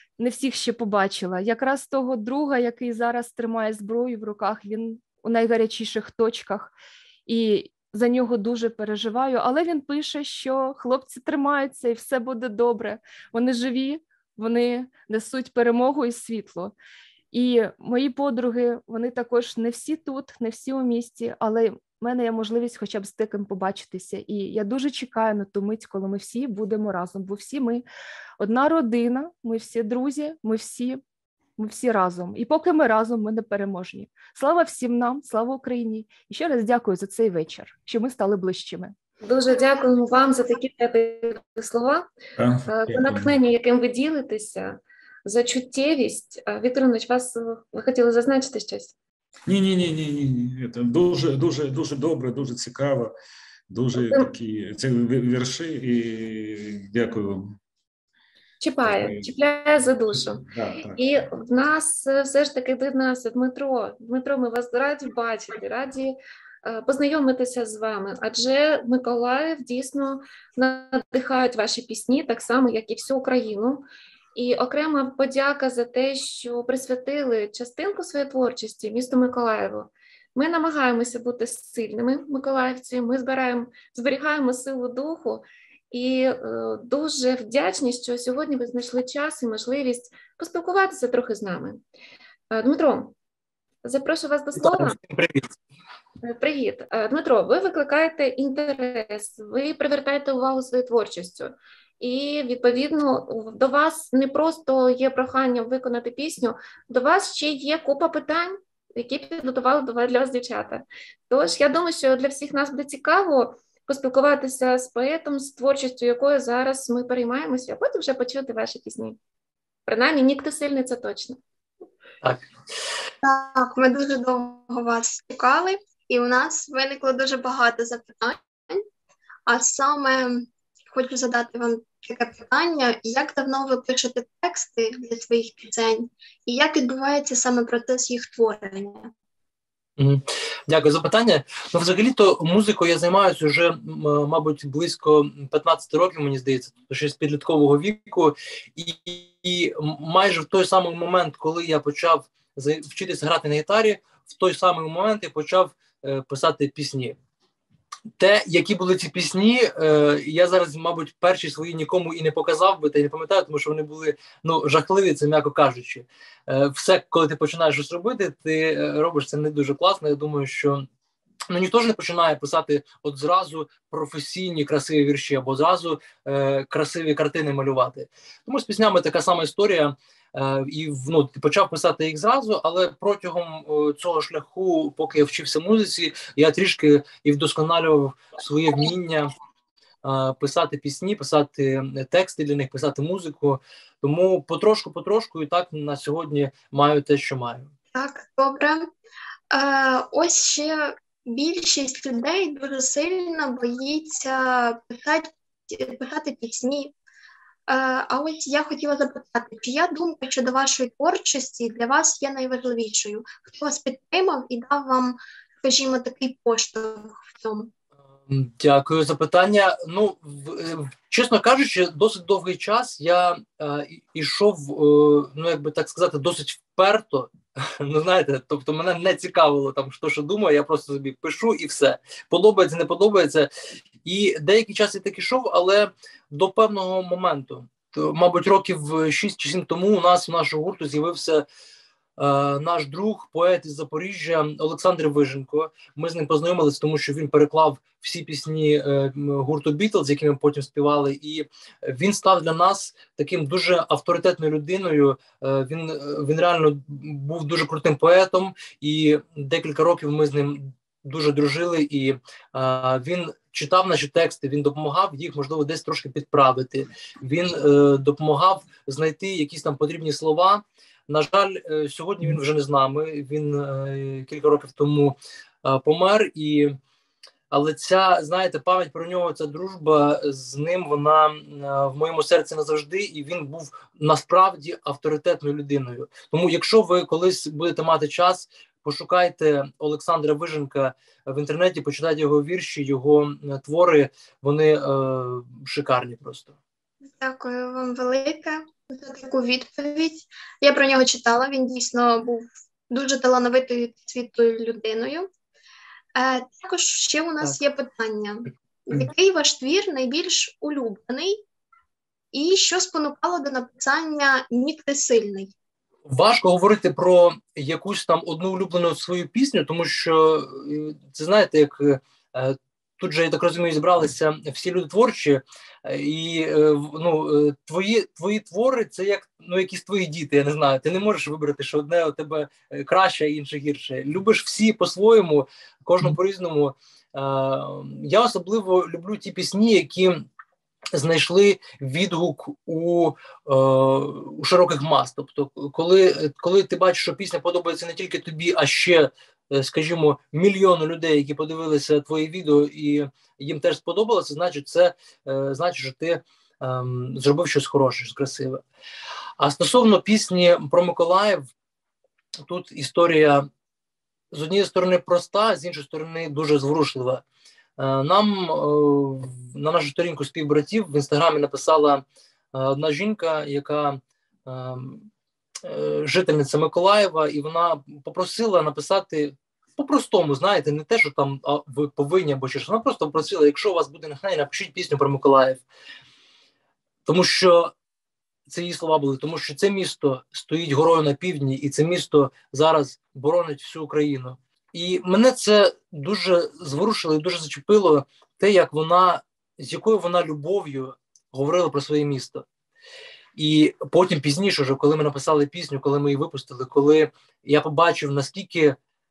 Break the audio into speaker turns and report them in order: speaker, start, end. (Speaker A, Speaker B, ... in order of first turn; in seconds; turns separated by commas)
Speaker A: 0.2-6.7, Speaker A: 7.3-16.7, Speaker A: 17.3-27.8, Speaker A: 28.4-31.0, Speaker A: 31.6-39.0, Speaker B: 39.2-42.1, Speaker C: 42.4-43.3, Speaker B: 42.7-49.0, Speaker C: 49.5-53.1, Speaker C: 53.7-57.6, Speaker B: 54.0-54.3, Speaker B: 58.6-91.8, Speaker C: 58.8-59.3, Speaker C: 60.1-61.0, Speaker B: 92.5-93.2, Speaker B: 93.8-95.0, Speaker D: 94.5-95.5, Speaker B: 96.2-119.2, Speaker B: 119.9-121.4, Speaker E: 123.2-128.8, Speaker E: 129.5-139.1, Speaker D: 140.0-157.2, Speaker D: 158.2-170.9, Speaker D: 171.5-189.3, Speaker D: 190.0-197.7, Speaker E: 197.9-198.9, Speaker E: 199.5-206.9, Speaker E: 207.7-217.7, Speaker D: 218.3-233.5, Speaker D: 234.0-241.4, Speaker D: 242.2-276.8, Speaker D: 277.5-296.6, Speaker E: 297.1-305.3, Speaker E: 306.1-311.4, Speaker E: 312.3-315.5, Speaker D: 316.1-340.2, Speaker D: 340.9-358.6, Speaker D: 359.4-361.5, Speaker D: 362.4-363.5, Speaker D: 364.3-367.2, Speaker D: 367.8-372.0, Speaker D: 372.5-375.1, Speaker D: 375.6-385.6, Speaker D: 387.1-387.7, Speaker D: 388.5-402.4, Speaker D: 403.4-408.8